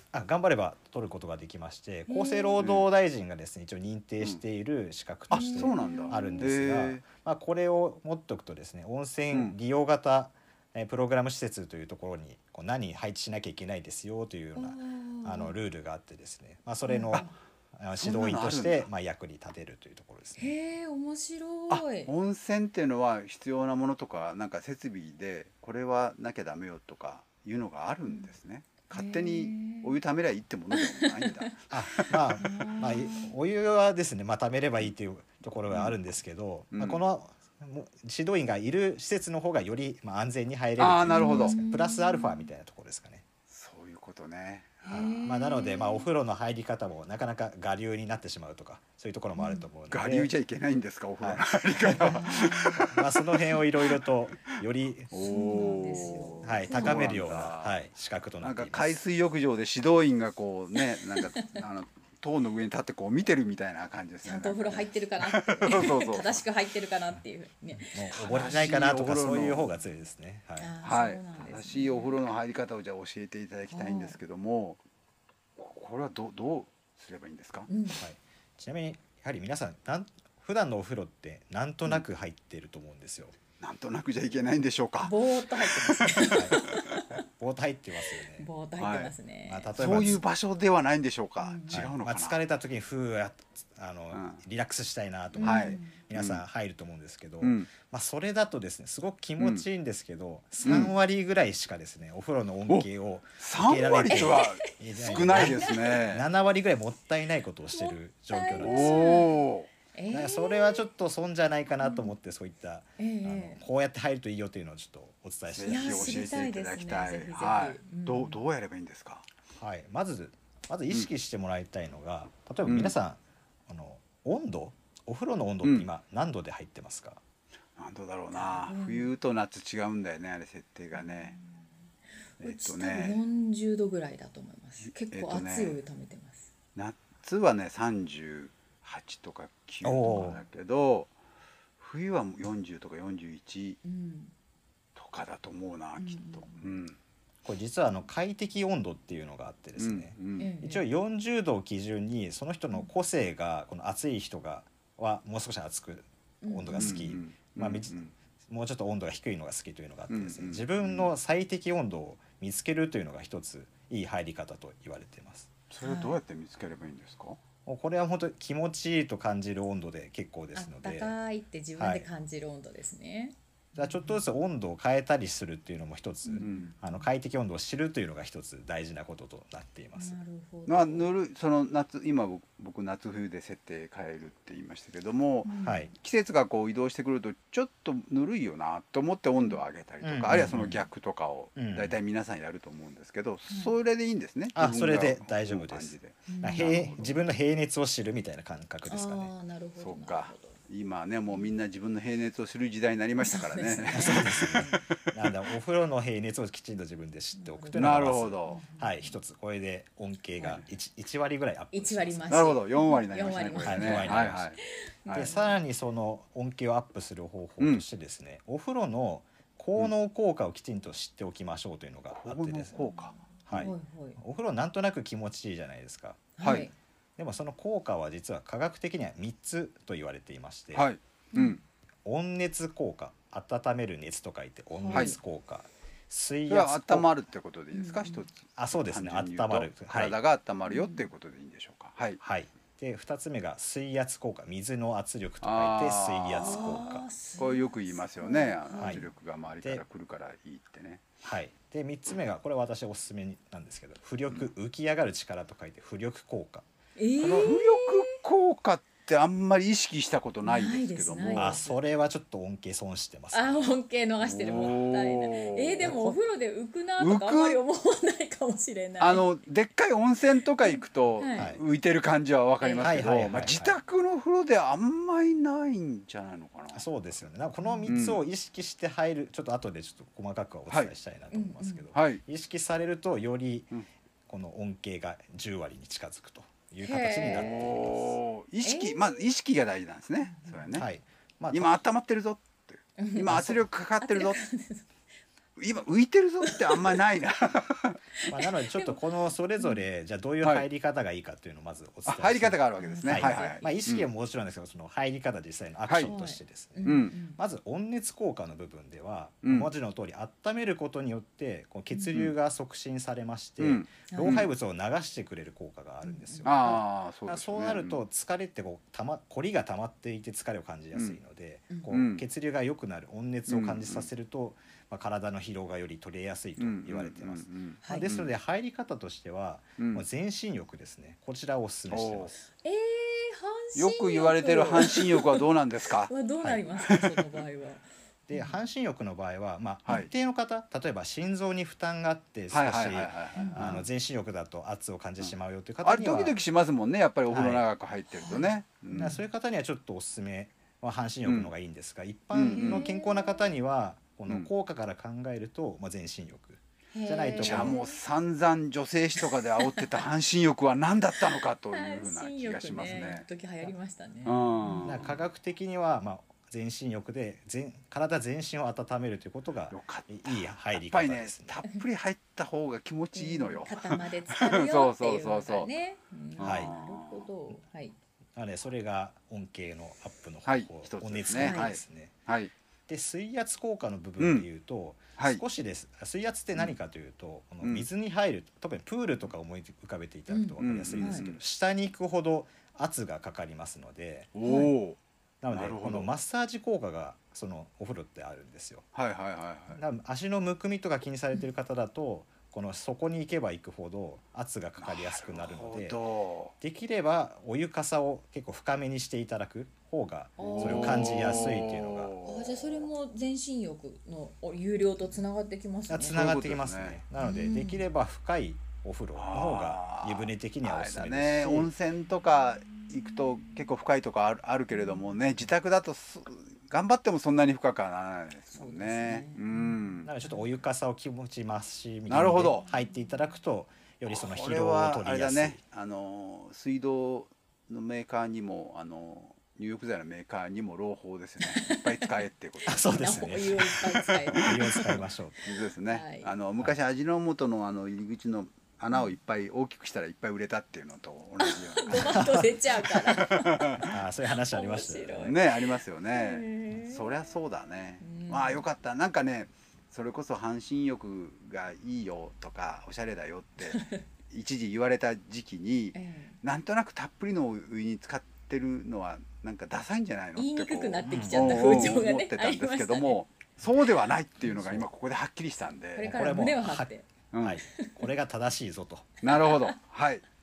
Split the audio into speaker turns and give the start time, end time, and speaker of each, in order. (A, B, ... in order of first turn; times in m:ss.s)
0:00.1-0:20.5 A
0:02.1-0:02.6 B
0:02.6-0:02.9 C
0:05.3-0:07.0 C
0:05.3-0:06.5 B
0:09.3-0:09.6 C
0:14.5-0:15.5 B
0:16.8-0:17.4 B
0:18.0-0:18.9 C
0:20.4-0:22.1 B
0:21.7-0:31.7 C
0:28.9-0:30.0 B
0:30.7-0:31.5 B
0:31.7-0:43.2 A
0:32.4-0:33.3 B
0:35.7-0:36.0 C
0:36.7-0:37.0 C
0:40.8-0:41.6 C
0:41.1-0:42.5 B
0:43.5-0:44.8 C
0:44.8-0:46.1 B
0:44.9-0:50.3 A
0:49.4-0:49.7 B
0:49.9-0:54.6 C
0:51.2-0:55.6 A
0:51.9-0:52.9 B
0:55.1-0:57.7 C
0:55.1-0:57.1 B
0:56.4-0:58.9 A
0:58.4-1:06.4 C
1:00.8-1:01.5 B
1:04.2-1:08.7 B
1:07.8-1:10.7 A
1:08.2-1:09.7 C
1:10.6-1:12.2 B
1:10.8-1:14.8 C
1:13.7-1:14.2 B
1:15.6-1:17.7 C
1:17.7-1:18.0 B
1:18.0-1:23.4 A
1:23.6-1:26.4 C
1:25.0-1:27.2 B
1:26.3-1:26.6 A
1:27.3-1:28.5 A
1:28.1-1:30.2 B
1:28.8-1:29.1 C
1:29.5-1:30.2 A
1:29.8-1:32.4 C
1:31.4-1:31.9 B
1:31.7-1:49.1 A
1:34.1-1:34.4 C
1:35.3-1:36.0 B
1:35.4-1:36.4 C
1:37.4-1:37.7 C
1:39.4-1:39.6 C
1:40.6-1:40.9 C
1:43.4-1:46.2 C
1:44.0-1:46.0 B
1:47.7-1:50.9 B
1:48.6-1:49.7 C
1:50.1-1:56.3 A
1:51.8-1:52.1 B
1:53.0-1:53.6 B
1:55.5-1:59.3 C
1:55.7-1:58.4 B
1:59.5-2:07.2 A
2:02.6-2:02.9 C
2:07.8-2:11.4 C
2:08.3-2:09.1 B
2:11.0-2:11.5 B
2:12.4-2:13.2 C
2:12.4-2:16.5 B
2:14.9-2:15.8 C
2:16.8-2:21.1 C
2:19.8-2:20.4 A
2:20.0-2:20.4 B
2:21.8-2:23.8 C
2:23.8-2:24.3 B
2:25.0-2:27.0 C
2:26.0-2:26.6 B
2:27.4-2:45.5 A
2:29.8-2:30.5 C
2:30.4-2:30.8 B
2:36.4-2:37.1 B
2:36.7-2:38.1 C
2:40.1-2:41.1 C
2:45.7-2:47.4 C
2:45.8-2:46.2 B
2:47.6-2:51.1 A
2:50.5-2:54.2 B
2:51.8-2:52.1 A
2:53.8-3:00.2 A
2:56.2-2:57.0 B
2:56.4-2:56.7 C
2:59.9-3:01.1 B
3:00.7-3:17.2 C
3:05.4-3:05.9 B
3:05.6-3:05.9 A
3:10.0-3:10.8 A
3:11.6-3:12.0 A
3:14.5-3:19.3 A
3:16.3-3:17.0 B
3:18.8-3:20.6 B
3:19.8-3:25.3 C
3:23.2-3:24.8 B
3:23.9-3:32.4 A
3:27.3-3:29.2 B
3:27.7-3:28.6 C
3:30.4-3:30.6 B
3:31.7-3:35.6 B
3:32.3-3:35.3 C
3:33.6-3:34.5 A
3:35.1-3:42.8 A
3:42.1-3:43.7 C
3:42.7-3:44.2 B
3:43.4-3:46.3 A
3:46.4-3:46.7 B
3:46.4-3:46.7 C
3:47.2-3:50.9 A
3:50.7-3:51.6 C
3:51.3-3:51.6 B
3:52.0-3:57.0 A
3:54.8-3:55.2 B
3:56.5-4:02.2 C
3:57.7-3:58.2 B
3:58.6-4:00.2 A
4:00.7-4:01.1 B
4:02.2-4:07.0 A
4:05.4-4:11.1 C
4:06.4-4:09.0 B
4:08.8-4:09.0 A
4:11.2-4:16.6 A
4:17.0-4:18.2 B
4:17.2-4:21.6 C
4:20.4-4:21.7 B
4:21.4-4:23.7 A
4:23.3-4:29.2 B
4:24.2-4:26.1 C
4:24.5-4:24.7 A
4:27.0-4:27.6 C
4:29.0-4:36.9 C
4:30.6-4:31.6 B
4:32.6-4:33.0 B
4:32.8-4:33.8 A
4:36.7-4:43.7 A
4:37.6-4:37.9 B
4:37.8-4:38.2 C
4:41.3-4:41.9 B
4:41.9-4:42.2 C
4:44.3-4:48.1 A
4:46.8-4:48.0 B
4:47.3-4:50.9 C
4:48.6-4:49.2 B
4:50.2-4:50.8 B
4:50.7-4:51.8 A
4:51.5-4:54.4 C
4:53.0-4:53.5 B
4:53.2-4:53.6 A
4:54.0-4:54.9 B
4:55.6-4:58.0 C
4:56.4-4:57.0 B
4:58.2-4:59.0 B
4:58.3-5:32.3 A
5:02.0-5:04.1 C
5:02.8-5:03.7 B
5:06.0-5:07.4 B
5:06.8-5:07.2 C
5:09.4-5:09.7 C
5:13.6-5:14.5 C
5:14.1-5:14.4 B
5:16.0-5:16.7 B
5:16.4-5:18.0 C
5:20.9-5:21.2 C
5:21.7-5:22.0 B
5:21.9-5:22.2 C
5:23.5-5:24.1 C
5:26.6-5:28.3 C
5:29.8-5:30.0 C
5:31.9-5:32.3 C
5:32.6-5:38.6 B
5:33.7-5:36.1 C
5:36.9-5:37.2 C
5:38.3-5:46.4 A
5:42.5-5:43.9 C
5:43.4-5:43.8 B
5:45.2-5:49.2 C
5:47.3-5:47.6 A
5:48.1-5:49.2 B
5:48.9-5:57.7 A
5:51.2-5:51.5 C
5:52.3-5:52.8 C
5:52.4-5:53.5 B
5:56.9-5:58.0 B
5:57.4-6:03.2 C
5:59.2-5:59.8 B
6:01.2-6:05.1 B
6:04.2-6:05.2 C
6:04.8-6:11.6 A
6:09.7-6:15.7 C
6:13.1-6:18.0 B
6:16.4-6:17.3 C
6:16.4-6:16.7 A
6:18.3-6:22.1 A
6:20.4-6:22.5 C
6:21.3-6:21.7 B
6:22.9-6:34.3 A
6:24.2-6:24.5 C
6:25.2-6:25.4 C
6:30.3-6:31.3 B
6:30.6-6:31.4 C
6:34.3-6:35.0 C
6:34.4-6:34.7 B
6:35.4-6:38.8 A
6:35.5-6:36.1 C
6:38.9-6:39.8 C
6:39.7-6:46.0 A
6:44.8-6:46.5 C
6:46.6-6:52.1 A
6:50.4-6:51.6 B
6:50.4-6:52.9 C
6:52.2-6:56.2 B
6:55.9-7:01.7 A
6:56.1-6:57.0 C
6:57.2-6:57.8 B
6:59.2-7:10.1 C
7:04.7-7:05.0 B
7:08.5-7:09.8 B
7:10.0-7:15.6 A
7:12.1-7:12.6 C
7:14.1-7:33.9 C
7:21.4-7:22.1 B
7:22.7-7:25.4 A
7:22.7-7:25.0 B
7:25.9-7:26.3 B
7:31.4-7:33.9 B
7:31.9-7:32.5 A
7:33.8-7:35.4 A
7:34.4-7:37.2 B
7:35.2-7:56.3 C
7:38.0-7:38.6 B
7:43.6-7:44.0 B
7:45.9-7:46.4 B
7:50.4-7:53.2 B
7:51.0-7:51.9 A
7:54.5-7:54.8 A
7:56.0-7:57.1 B
7:56.0-7:56.9 A
7:57.3-7:57.6 C
7:57.4-7:59.1 A
7:57.7-7:58.0 B
7:59.2-8:00.2 C
7:59.3-7:59.8 B